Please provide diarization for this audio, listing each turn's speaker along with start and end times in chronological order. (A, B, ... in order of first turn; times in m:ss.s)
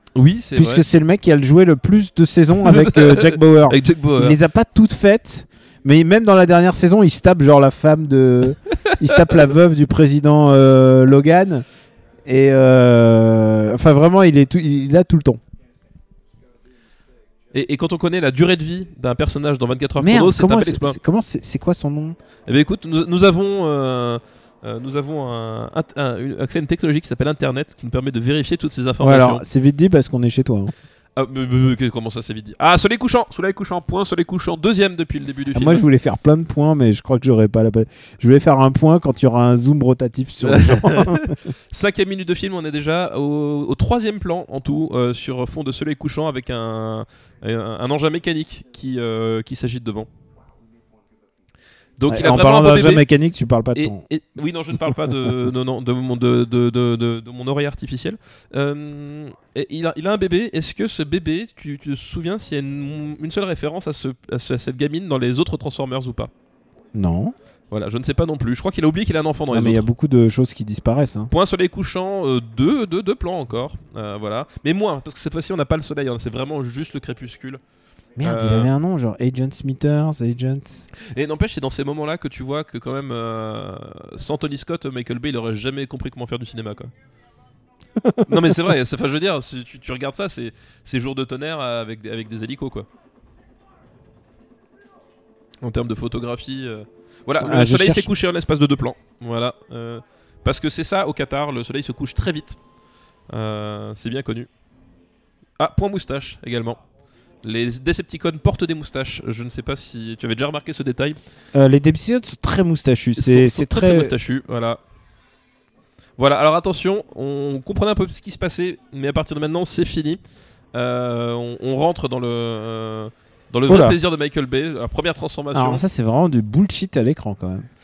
0:00.2-0:00.8 A
0:00.6-0:11.7 B
0:02.6-0:04.4 A
0:08.7-0:09.0 A
0:12.3-0:15.4 B
0:17.5-0:21.0 A
0:20.0-0:22.2 B
0:22.5-0:29.4 A
0:29.0-0:30.7 B
0:31.2-0:35.9 A
0:35.5-0:41.4 B
0:40.4-0:50.1 A
0:52.0-0:53.0 A
0:52.1-0:54.1 B
0:53.8-1:06.3 A
1:06.9-1:07.4 B
1:07.7-1:09.9 A
1:09.5-1:11.3 B
1:11.3-1:17.6 A
1:18.2-1:20.9 B
1:18.2-1:18.7 A
1:21.0-1:26.9 A
1:28.0-1:28.6 B
1:28.2-1:32.9 A
1:35.6-1:42.6 A
1:37.4-1:38.1 B
1:43.3-1:44.5 A
1:45.6-1:46.8 A
1:47.4-1:51.2 A
1:51.5-1:54.1 B
1:53.2-1:54.8 A
1:56.2-2:00.2 A
2:00.7-2:05.8 A
2:03.7-2:04.0 B
2:05.5-2:07.7 B